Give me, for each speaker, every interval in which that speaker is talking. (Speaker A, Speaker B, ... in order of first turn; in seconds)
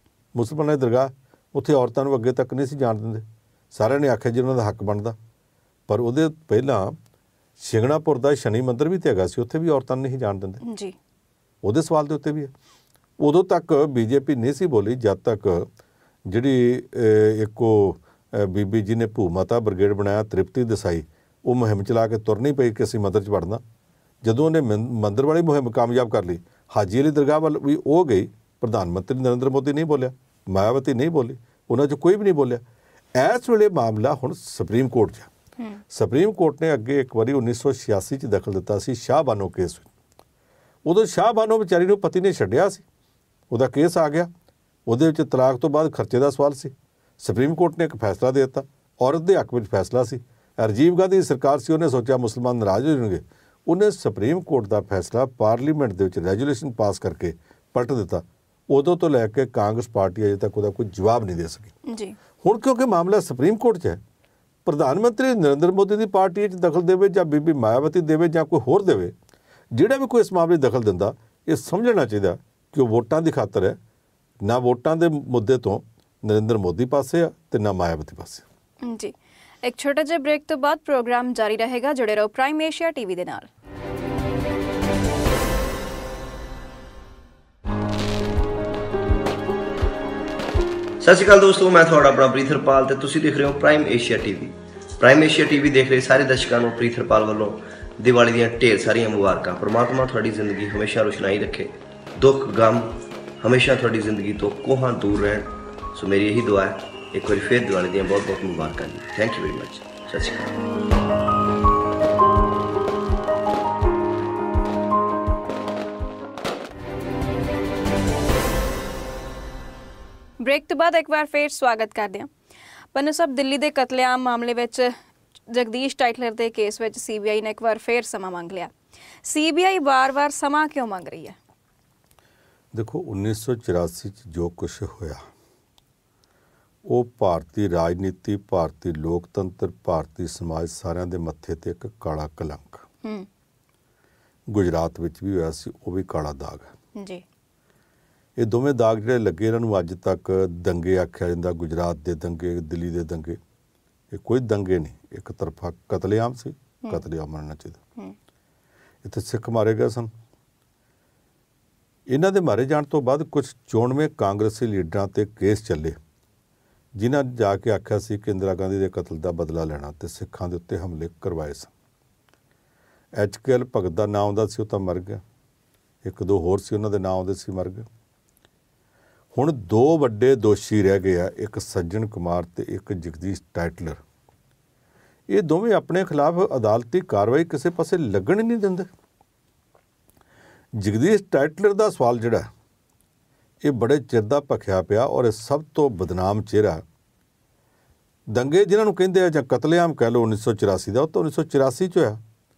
Speaker A: 0.3-5.2, 5.9-7.0, 7.6-10.6, 11.6-12.5, 13.2-15.7, 16.3-23.6, 24.2-32.6, 33.2-35.3, 35.9-39.9, 40.9-42.8, 43.5-44.3, 44.9-61.7, 62.4-64.0, 64.7-69.1, 69.7-73.8, 74.4-78.4, 132.7-135.2, 136.9-142.9, 144.5-146.7, 148.4-153.4, 154.1-157.8, 159.0-160.1, 162.1-166.0, 167.0-171.7, 173.2-175.2, 176.0-177.9, 179.3-184.0, 185.3-188.9, 190.8-192.5, 193.6-196.8, 198.3-202.2
Speaker B: 10.6-10.9, 61.9-62.2, 78.8-83.5, 120.4-122.3, 122.9-124.9, 125.5-128.7, 129.2-131.4, 147.0-147.2
Speaker C: 91.0-110.5